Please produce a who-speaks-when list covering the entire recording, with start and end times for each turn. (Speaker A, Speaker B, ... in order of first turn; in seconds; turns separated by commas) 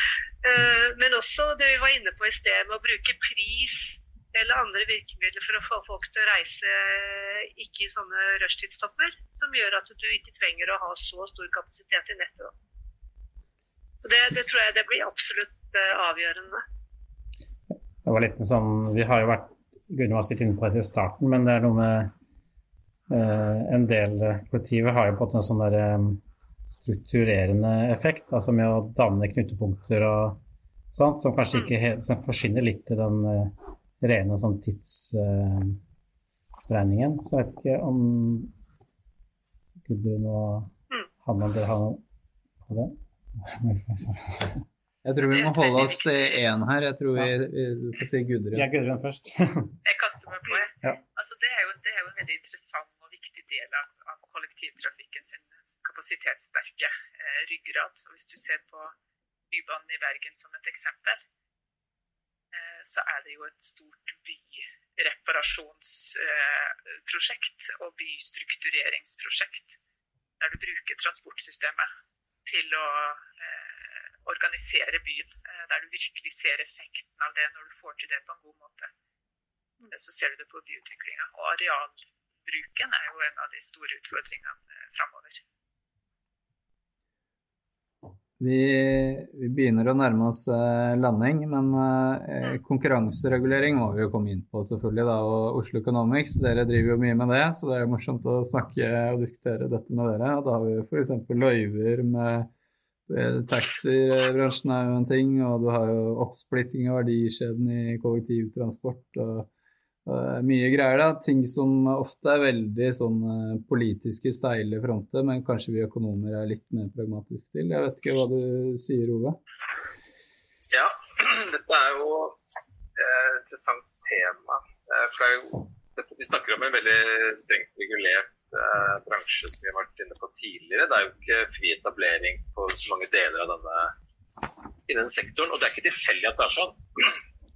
Speaker A: 0.4-12.5, Speaker A: 14.0-16.6, Speaker B: 18.0-22.1, Speaker B: 23.1-30.4, Speaker B: 30.9-35.8, Speaker B: 36.7-38.5, Speaker B: 39.9-42.0, Speaker B: 42.6-44.6, Speaker C: 45.0-48.7, Speaker D: 45.3-46.4, Speaker B: 48.5-49.8, Speaker D: 49.8-59.0, Speaker D: 59.5-61.2, Speaker D: 62.5-69.8, Speaker D: 70.4-71.9, Speaker D: 72.5-78.9, Speaker D: 79.8-85.4, Speaker C: 88.4-102.5, Speaker C: 103.1-109.5, Speaker C: 110.1-119.4, Speaker E: 120.7-122.4, Speaker E: 123.0-133.9, Speaker E: 134.9-137.2